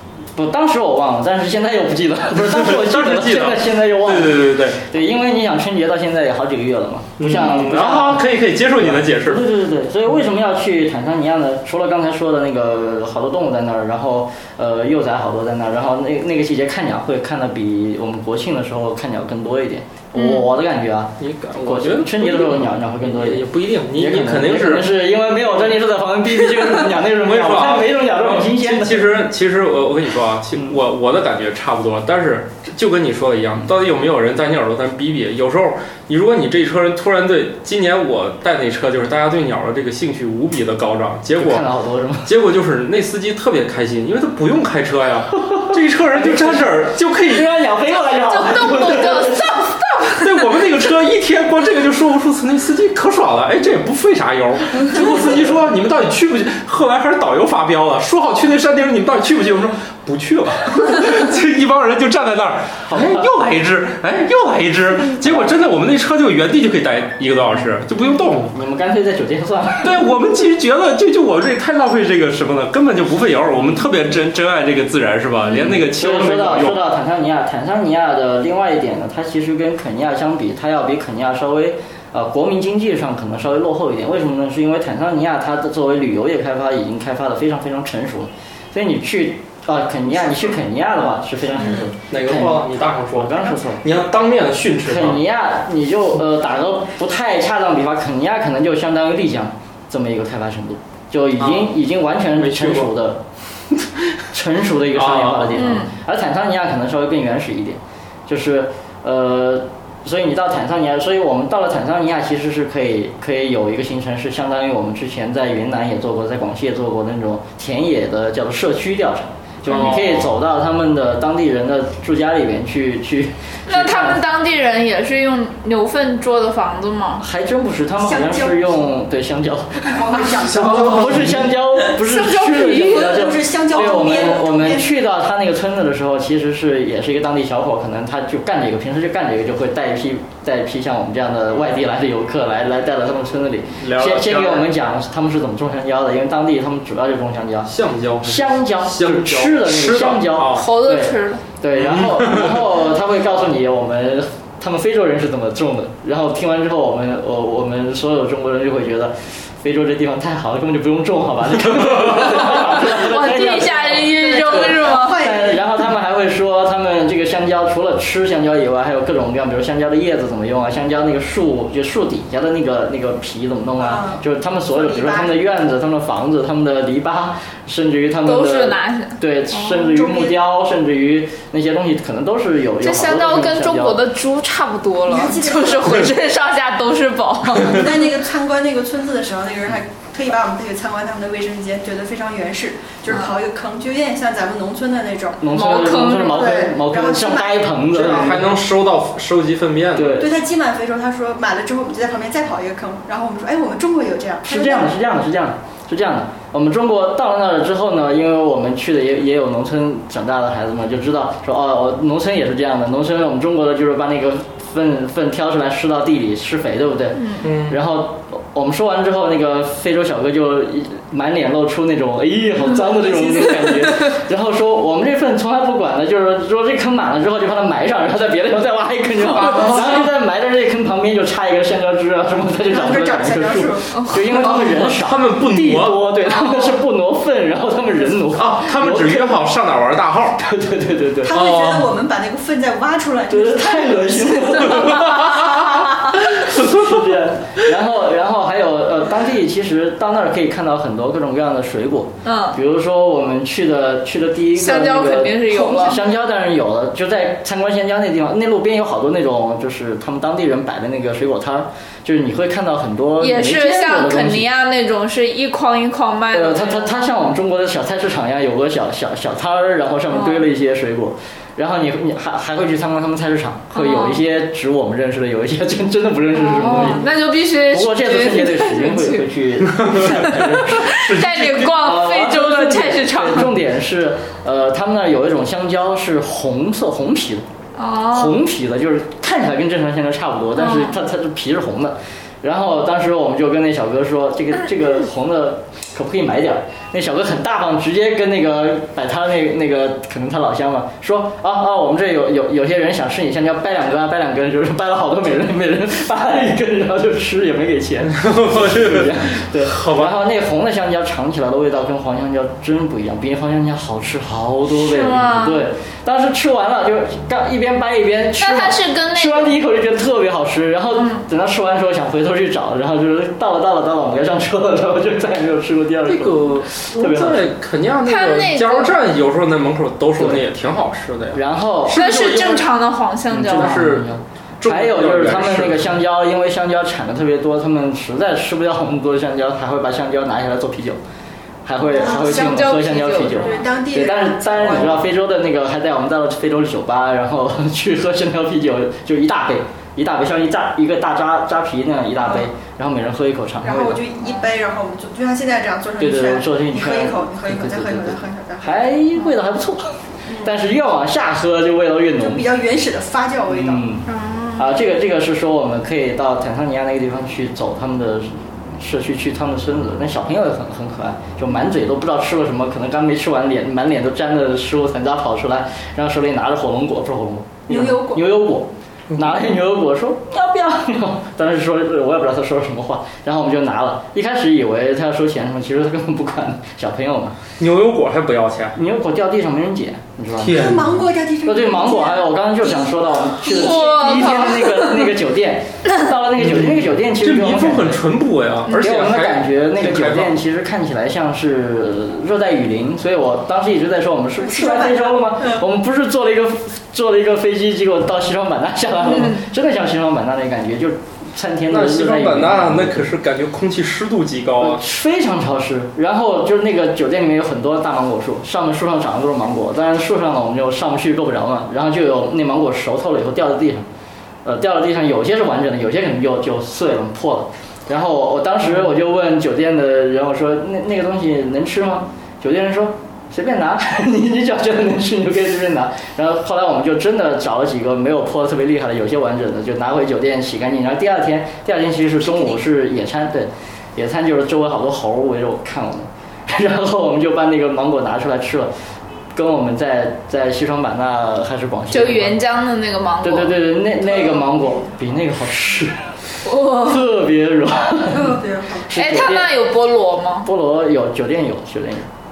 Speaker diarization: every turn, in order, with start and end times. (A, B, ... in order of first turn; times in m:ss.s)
0:00.4-0:29.2 A
0:02.4-0:04.8 B
0:07.2-0:09.4 B
0:20.2-0:20.5 C
0:21.2-0:25.0 B
0:27.0-0:41.7 B
0:41.4-0:42.3 A
0:42.2-0:47.6 B
0:45.5-0:49.6 A
0:47.9-0:50.5 C
0:50.2-1:08.5 B
1:02.9-1:03.3 A
1:05.2-1:05.5 A
1:08.2-1:10.0 A
1:09.8-1:16.8 B
1:15.6-1:33.8 A
1:32.1-1:35.2 B
1:34.9-1:43.2 A
1:41.4-1:41.7 B
1:42.3-1:42.9 B
1:44.3-2:04.2 A
1:45.0-1:45.8 B
1:45.6-1:45.9 C
1:59.6-2:00.3 B
2:03.7-2:07.2 C
2:07.2-2:27.7 A
2:08.0-2:08.8 D
2:09.8-2:11.4 D
2:10.4-2:11.5 B
2:11.9-2:15.0 D
2:23.8-2:24.7 B
2:27.7-2:30.7 B
2:28.2-3:04.0 A
2:30.5-2:31.4 C
2:31.8-2:32.6 B
2:42.4-2:45.3 C
2:44.0-2:45.8 D
2:53.8-2:55.4 D
2:58.2-2:59.9 C
2:59.9-3:00.4 D
3:02.8-3:08.0 C
3:05.1-3:06.1 D
3:07.6-3:15.4 D
3:15.4-3:18.5 A
3:15.5-3:16.6 C
3:16.2-3:18.4 D
3:17.9-3:20.2 B
3:20.0-3:20.3 A
3:20.2-3:24.9 D
3:24.4-3:59.4 A
3:37.4-3:37.8 B
3:43.3-3:43.9 C
3:49.2-3:50.1 B
3:52.7-3:53.9 D
3:54.0-3:54.3 C
3:54.5-3:56.1 B
3:56.4-3:56.7 C
3:58.3-4:00.4 B
4:00.4-4:01.4 A
4:01.2-4:05.1 D
4:01.3-4:01.9 B
4:03.3-4:24.5 A
4:04.9-4:05.6 B
4:06.6-4:07.0 B
4:12.2-4:12.6 C
4:14.6-4:16.0 C
4:23.2-4:27.1 C
4:26.3-4:37.1 A
4:30.1-4:30.5 C
4:33.7-4:34.2 C
4:36.3-4:39.3 C
4:37.7-4:47.4 A
4:39.7-4:40.2 B
4:40.1-4:43.6 C
4:40.9-4:41.7 B
4:47.8-4:48.4 C
4:48.1-5:27.5 A
4:50.6-4:51.0 C
5:08.1-5:10.2 B
5:14.7-5:15.7 C
5:18.4-5:19.6 C
5:21.0-5:21.2 C
5:26.1-5:32.6 B
5:28.0-5:28.9 C
5:31.3-5:32.4 A
5:31.9-5:33.9 C
5:33.3-5:41.0 A
5:33.3-5:36.0 B
5:41.7-5:54.0 A
5:41.9-5:43.7 C
5:42.0-5:42.5 D
5:43.4-5:45.1 D
5:53.6-5:58.9 D
5:56.0-6:02.5 A
6:00.3-6:00.5 D
6:02.2-6:03.8 D
6:03.5-6:04.1 A
6:04.1-6:04.7 C
6:04.6-6:27.4 A
6:17.7-6:18.4 D
6:19.1-6:19.4 B
6:27.6-6:28.8 B
6:28.8-6:30.8 A
6:30.4-6:31.0 B
6:30.5-6:33.0 D
6:31.4-6:38.0 A
6:33.4-6:35.0 C
6:36.4-6:40.4 B
6:38.8-6:53.1 A
6:44.4-6:45.6 D
6:49.1-6:49.4 C
6:51.7-6:54.8 B
6:54.6-7:03.9 A
7:04.4-7:28.7 A
7:29.4-7:32.4 A
7:31.9-7:33.6 C
7:33.2-7:36.1 A
7:36.4-7:37.0 C
7:36.7-7:39.6 A
7:38.1-7:38.9 D
7:38.9-7:40.5 C
7:40.4-7:42.1 A